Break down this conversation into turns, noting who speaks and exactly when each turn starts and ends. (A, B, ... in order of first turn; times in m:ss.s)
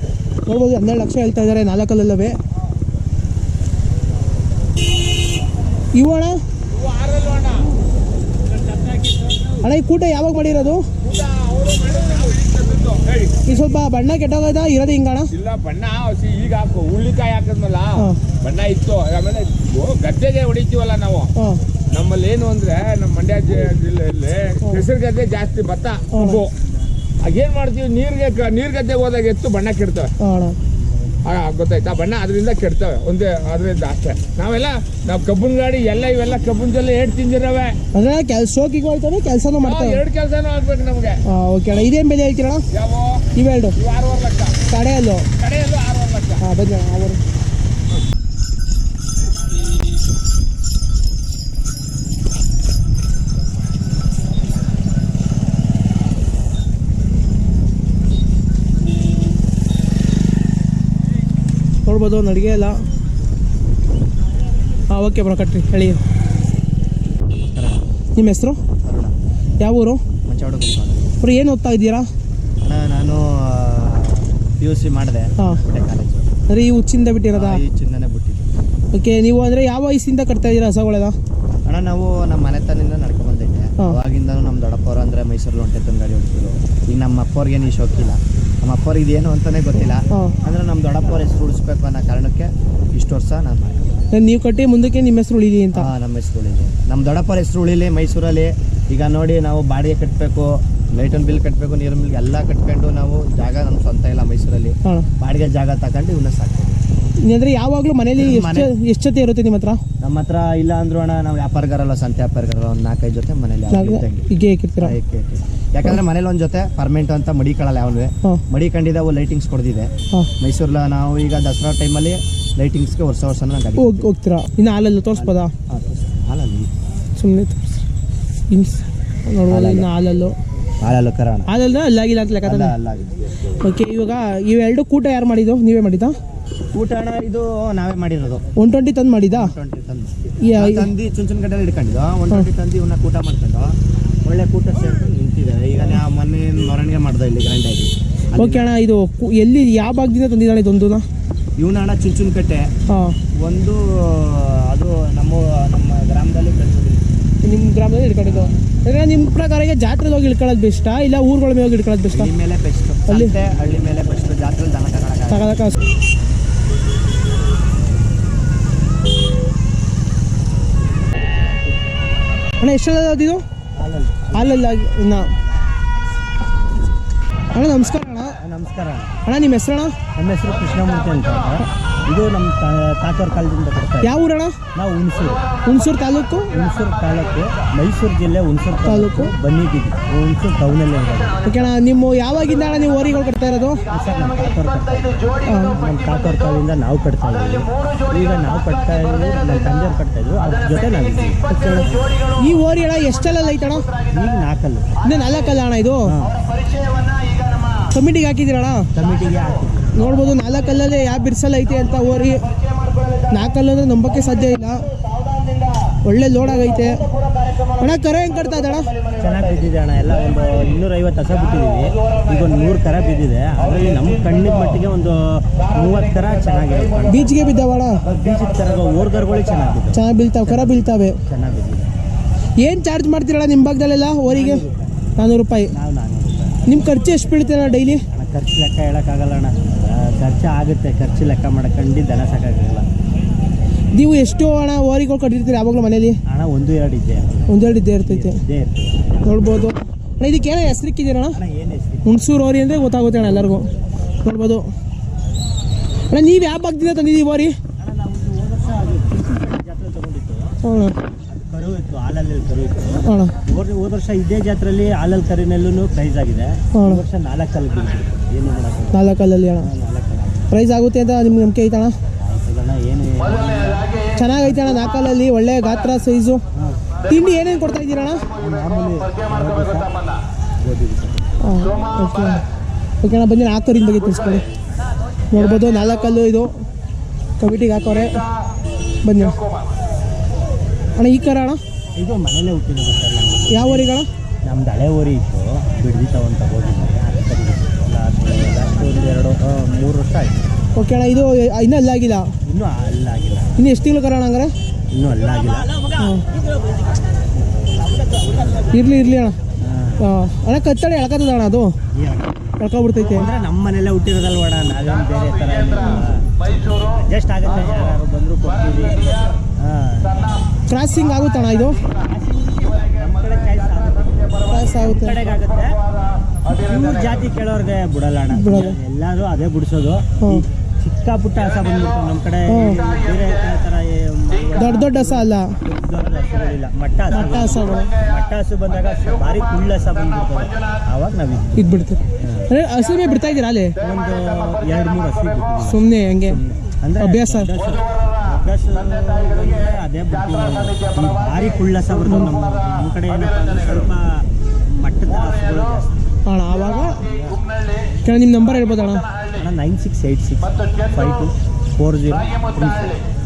0:00.4-0:02.4 A
0:05.9-0:06.4 A
0:06.7-0:07.7 B
0:09.6-0:10.9 A
0:11.0-0:13.4 B
0:13.4-0:15.3 A
0:15.3-0:21.3 B
0:21.9-0:26.5 B
0:26.1-0:26.4 A
0:27.2-0:30.1 B
0:30.2-0:30.6 A
0:31.2-0:37.8 B
0:37.9-0:40.0 A
0:39.6-0:41.2 B
0:41.3-0:42.6 A
0:42.7-0:43.2 B
0:43.3-0:43.7 A
0:43.8-0:44.6 B
0:44.7-0:45.3 A
0:45.4-0:46.4 B
0:46.4-0:47.2 A
1:01.8-1:02.8 A
1:04.9-1:06.0 A
1:07.5-1:07.8 C
1:08.2-1:08.6 A
1:08.8-1:09.2 C
1:09.6-1:10.0 A
1:10.2-1:11.1 C
1:11.2-1:12.1 A
1:12.6-1:16.3 C
1:16.5-1:17.6 A
1:17.3-1:18.5 C
1:18.9-1:21.2 A
1:21.6-1:33.9 C
1:30.1-1:30.4 A
1:34.1-1:35.9 A
1:35.7-1:46.8 C
1:47.2-1:49.8 A
1:48.2-1:48.7 C
1:50.0-1:54.3 C
1:53.7-1:55.0 A
1:54.8-2:04.1 C
2:03.8-2:05.5 A
2:05.2-2:06.7 C
2:07.2-2:07.8 A
2:08.5-2:10.3 A
2:09.5-2:09.9 C
2:10.8-2:11.5 C
2:11.4-2:12.7 A
2:12.4-2:13.2 C
2:13.6-2:16.1 A
2:16.7-2:18.4 C
2:18.6-2:19.5 A
2:19.3-2:28.7 C
2:20.4-2:20.9 A
2:28.3-2:31.0 A
2:31.6-2:32.7 C
2:32.9-2:33.2 A
2:33.4-2:37.1 C
2:37.4-2:42.3 A
2:38.2-2:38.6 C
2:42.1-2:45.5 C
2:43.1-2:43.4 A
2:45.3-2:45.8 A
2:52.6-2:53.4 A
2:53.8-2:54.6 C
2:54.3-2:55.3 A
2:57.5-2:58.4 A
2:58.4-2:59.2 C
2:59.2-2:59.9 A
3:00.2-3:04.2 C
3:04.0-3:04.5 A
3:04.7-3:05.5 C
3:05.6-3:06.6 A
3:06.5-3:11.7 C
3:08.8-3:09.3 A
3:11.4-3:13.8 A
3:13.9-3:22.2 C
3:15.4-3:15.8 A
3:21.5-3:23.9 A
3:24.0-3:24.9 C
3:25.0-3:26.1 A
3:26.0-3:26.4 C
3:27.9-3:28.9 A
3:28.9-3:30.2 C
3:29.9-3:32.5 A
3:33.3-3:34.9 A
3:36.0-3:37.0 A
3:37.8-3:38.9 A
3:39.1-3:47.4 C
3:47.0-3:48.0 A
3:48.0-3:51.9 C
3:49.9-3:51.2 A
3:52.6-3:54.6 A
3:54.2-3:55.1 C
3:55.2-3:55.7 A
3:55.7-3:56.6 C
3:56.6-3:58.0 A
3:58.0-4:02.8 C
4:03.9-4:06.2 A
4:06.2-4:09.3 C
4:07.5-4:08.4 A
4:09.2-4:11.4 A
4:11.3-4:12.3 C
4:12.0-4:13.7 A
4:14.2-4:14.6 A
4:16.1-4:17.5 A
4:17.8-4:20.6 C
4:20.6-4:20.9 A
4:21.3-4:29.0 C
4:23.0-4:23.3 A
4:26.7-4:27.0 A
4:28.9-4:29.7 A
4:29.6-4:30.5 C
4:30.5-4:31.9 A
4:32.2-4:34.8 C
4:34.1-4:36.4 A
4:36.5-4:36.8 C
4:37.1-4:38.3 A
4:38.4-4:39.9 C
4:40.6-4:41.3 C
4:41.4-4:42.4 A
4:43.0-4:44.4 A
4:45.3-4:46.5 A
4:47.4-4:48.2 A
4:49.0-4:49.4 A
4:51.0-4:51.6 A
4:52.0-5:00.5 C
4:53.5-4:54.1 A
5:00.8-5:02.2 A
5:02.4-5:03.6 C
5:03.6-5:04.5 A
5:04.9-5:08.9 C
5:06.0-5:06.3 A
5:08.7-5:09.3 A
5:09.6-5:10.0 C
5:10.0-5:11.7 A
5:11.9-5:12.4 C
5:12.6-5:13.3 A
5:13.0-5:20.3 C
5:20.7-5:21.8 A
5:21.9-5:25.8 C
5:24.5-5:25.2 A
5:26.4-5:42.5 C
5:28.3-5:28.8 A
5:30.2-5:30.4 A
5:32.5-5:32.8 A
5:34.6-5:35.6 A
5:37.1-5:37.9 A
5:41.6-5:43.8 A
5:43.8-5:55.9 C
5:45.6-5:46.4 A
5:47.0-5:47.5 A
5:52.0-5:52.4 A
5:56.2-5:57.0 A
5:56.9-5:57.4 C
5:58.0-5:59.1 A
5:59.3-6:03.0 C